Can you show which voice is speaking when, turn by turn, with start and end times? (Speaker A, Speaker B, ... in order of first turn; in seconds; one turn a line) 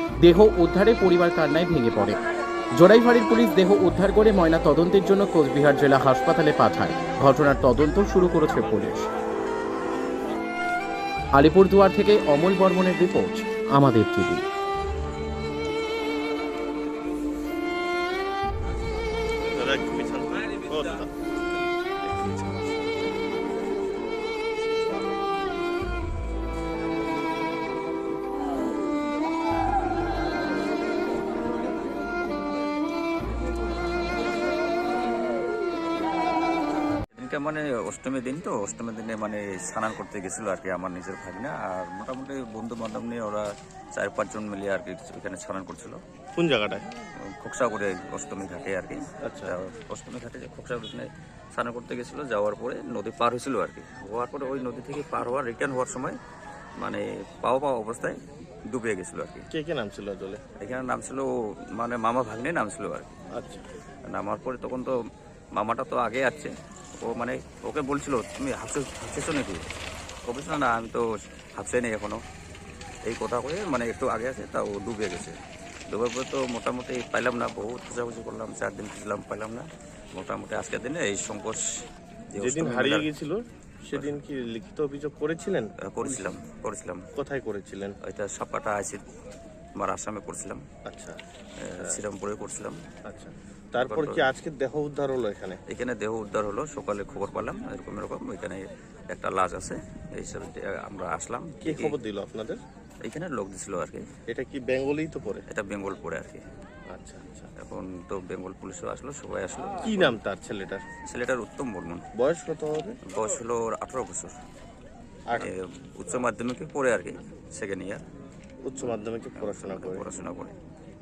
Speaker A: 0.2-2.2
Speaker A: 2.8-9.1
Speaker A: 11.3-14.4
Speaker B: 19.5-21.1
Speaker B: 22.0-22.6
Speaker C: 37.1-46.0
Speaker B: 46.4-46.9
Speaker C: 47.4-56.2
Speaker B: 49.2-49.6
Speaker C: 56.8-58.2
Speaker C: 58.7-59.5
Speaker B: 59.5-60.4
Speaker C: 60.6-63.2
Speaker B: 63.4-63.6
Speaker C: 64.1-64.9
Speaker C: 65.6-69.7
Speaker C: 70.3-71.0
Speaker C: 71.6-72.2
Speaker C: 73.1-75.4
Speaker C: 75.9-81.6
Speaker C: 82.3-83.1
Speaker B: 82.4-86.4
Speaker C: 85.9-87.0
Speaker B: 87.2-88.0
Speaker C: 88.0-89.0
Speaker C: 89.8-90.6
Speaker B: 90.9-91.2
Speaker C: 91.6-92.8
Speaker B: 93.1-95.6
Speaker C: 93.8-94.2
Speaker C: 95.7-102.0
Speaker B: 101.6-102.6
Speaker C: 103.0-104.0
Speaker B: 104.3-105.5
Speaker C: 105.5-106.4
Speaker B: 106.9-107.5
Speaker C: 107.6-110.2
Speaker B: 109.8-110.8
Speaker C: 111.1-112.0
Speaker B: 112.2-113.0
Speaker C: 113.1-114.3
Speaker C: 115.4-118.0
Speaker B: 118.7-120.0
Speaker C: 119.4-120.5